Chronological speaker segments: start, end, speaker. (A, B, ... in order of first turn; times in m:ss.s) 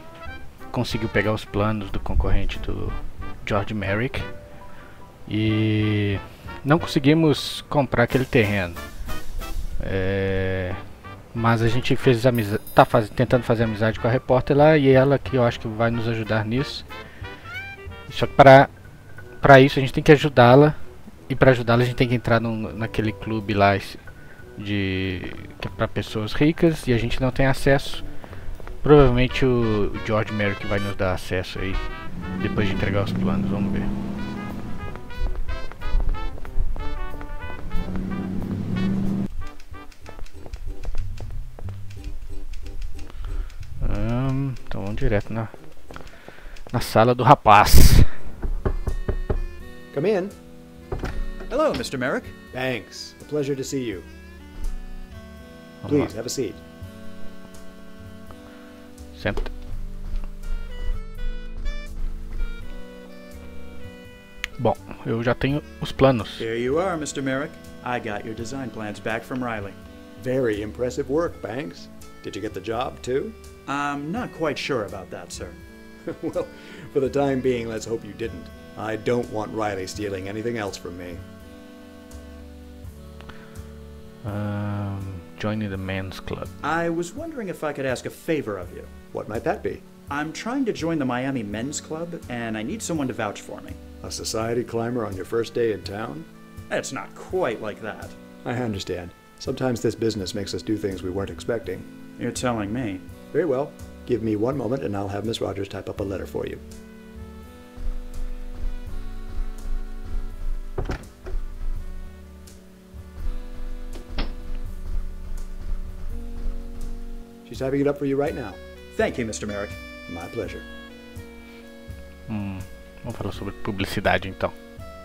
0:00.7-0:04.3 A
0:05.3-0:08.8 A
0:09.8-0:10.8 A
0:11.3-0:16.9 A
0:18.1-0:18.7 A
0:19.4-0:24.0 A
0:24.6-0:28.1 A
0:28.8-0:33.9 A
0:43.8-0:46.2 A
0:46.7-0:48.3 A
0:49.9-0:50.4 B
0:51.5-0:52.4 C
0:52.5-0:54.1 B
0:55.8-0:56.1 A
0:55.8-0:56.6 B
0:59.2-0:59.5 A
1:04.6-1:06.5 A
1:06.4-1:09.8 C
1:10.2-1:13.4 B
1:13.7-1:15.6 C
1:16.1-1:21.2 B
1:24.2-1:26.5 A
1:26.6-1:28.9 C
1:29.1-1:29.8 B
1:30.1-1:33.8 C
1:34.0-1:36.3 B
1:36.7-1:38.2 C
1:38.4-1:41.9 B
1:42.2-1:43.1 C
1:43.3-1:46.6 B
1:57.4-1:58.6 B
1:58.9-1:59.8 C
2:00.1-2:00.7 B
2:02.3-2:04.6 A